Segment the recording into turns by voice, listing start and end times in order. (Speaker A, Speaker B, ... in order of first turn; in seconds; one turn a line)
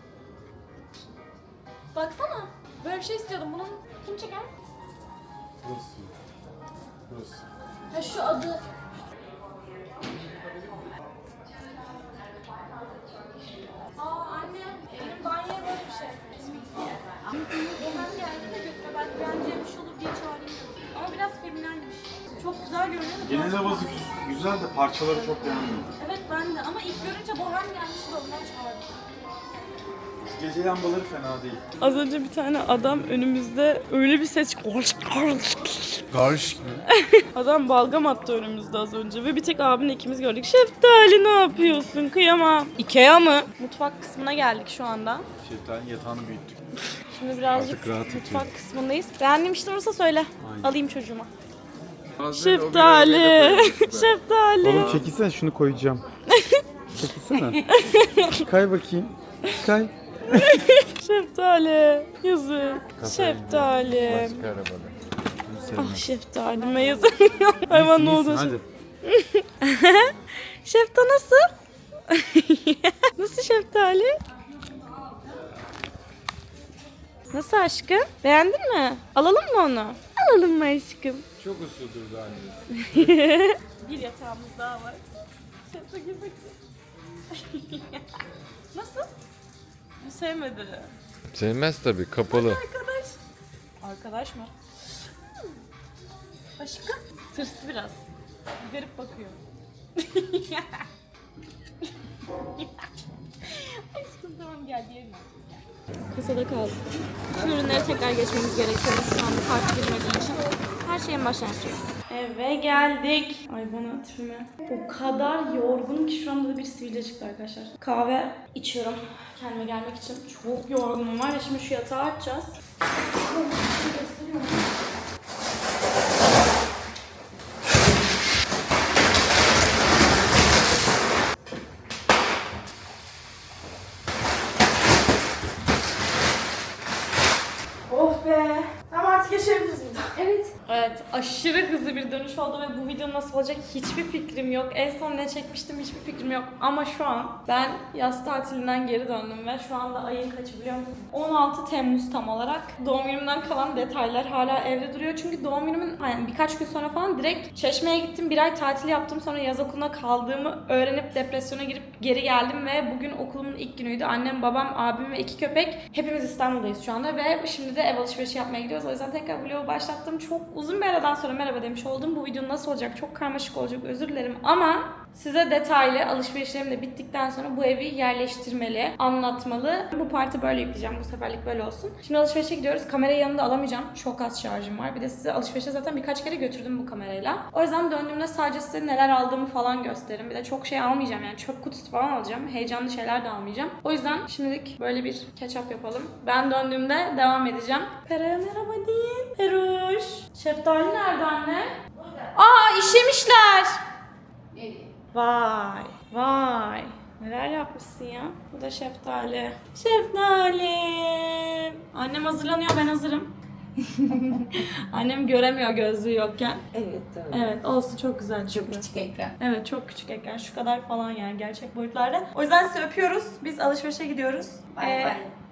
Speaker A: 1.9-4.5
Speaker B: 5.6-6.1
Speaker B: 7.1-7.4
Speaker A: 7.9-8.6
Speaker A: 13.9-24.1
Speaker B: 23.2-25.9
Speaker A: 26.0-28.9
Speaker B: 30.2-31.6
Speaker A: 31.8-36.0
Speaker B: 36.1-36.8
Speaker A: 36.9-45.2
Speaker B: 45.4-46.6
Speaker A: 47.1-51.3
Speaker B: 47.5-48.5
Speaker B: 50.4-50.8
Speaker C: 52.2-55.1
Speaker A: 52.3-55.0
Speaker B: 54.6-56.0
Speaker A: 56.3-56.6
Speaker B: 56.9-57.6
Speaker A: 57.6-58.5
Speaker B: 58.4-60.5
Speaker A: 60.3-64.4
Speaker C: 63.0-65.0
Speaker B: 65.4-66.1
Speaker A: 65.7-71.5
Speaker B: 67.7-68.7
Speaker A: 72.1-74.2
Speaker A: 77.3-81.2
Speaker C: 81.4-83.1
Speaker A: 82.8-85.1
Speaker A: 85.6-86.6
Speaker A: 87.3-88.0
Speaker A: 88.7-89.1
Speaker A: 90.0-90.9
Speaker C: 91.3-92.6
Speaker A: 92.3-93.2
Speaker A: 93.8-94.5
Speaker A: 96.6-98.0
Speaker A: 98.6-99.4
Speaker A: 100.0-100.8
Speaker A: 103.5-122.5
Speaker A: 123.1-124.8
Speaker A: 137.9-201.8
Speaker D: 140.1-140.5
Speaker A: 202.3-203.8
Speaker D: 204.5-204.9
Speaker A: 205.1-216.6
Speaker D: 216.7-217.5
Speaker A: 217.3-225.2
Speaker D: 218.5-219.3
Speaker D: 224.7-225.3